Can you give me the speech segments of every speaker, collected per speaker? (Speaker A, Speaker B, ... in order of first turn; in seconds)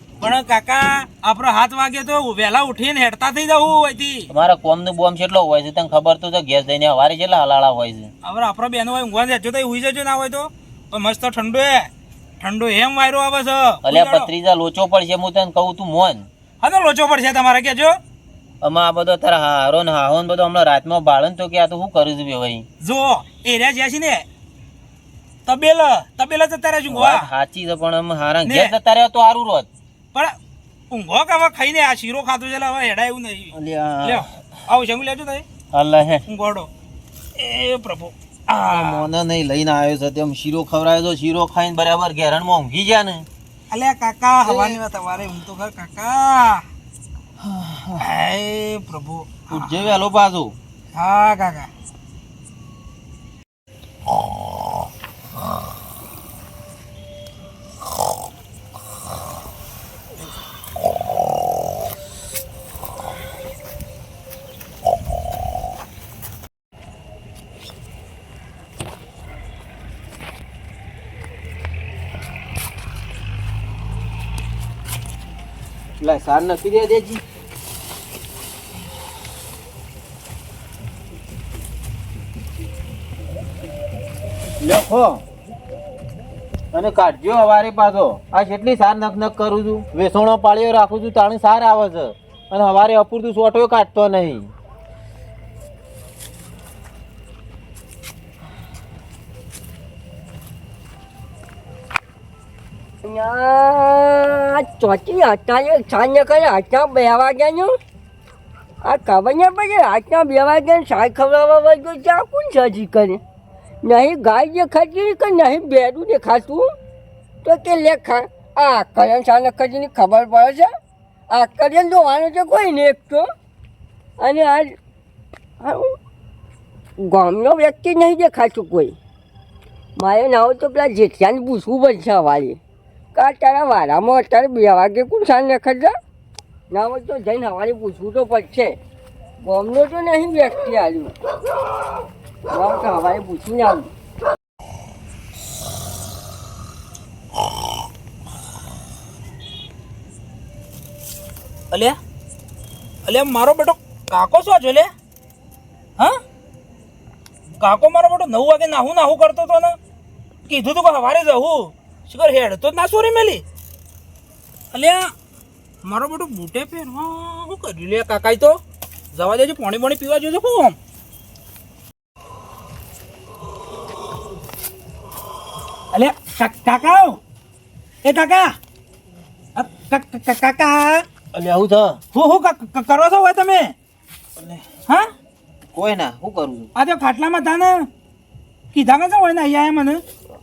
Speaker A: 0.2-4.3, 8.2-11.9, 12.4-14.3, 16.6-18.0, 22.8-24.2, 25.5-27.3, 28.4-28.7, 30.9-35.4, 36.3-36.7, 37.4-39.1, 43.7-46.6, 48.0-50.0, 51.0-51.7, 151.7-152.0, 153.1-154.9, 157.6-159.8, 160.5-163.4, 164.7-165.1, 165.8-168.6, 169.1-170.8, 175.9-177.2, 178.0-178.6, 179.6-181.0, 182.1-183.7, 186.8-187.9, 188.7-190.0
Speaker B: 4.3-8.1, 13.8-16.3, 18.6-22.7, 26.9-29.7, 33.5-34.3, 35.7-36.2, 38.7-43.3, 44.5-44.8, 47.4-48.0, 49.5-50.6, 76.0-77.2, 84.6-85.2, 86.7-94.5, 181.3-182.0, 184.4-184.6, 185.7-186.7
Speaker C: 103.0-107.8, 108.8-113.2, 113.8-116.7, 117.4-120.7, 121.3-123.3, 124.2-124.8, 125.6-125.9, 127.0-129.0, 130.0-132.6, 133.2-135.9, 136.7-138.8, 139.4-141.2, 142.5-143.9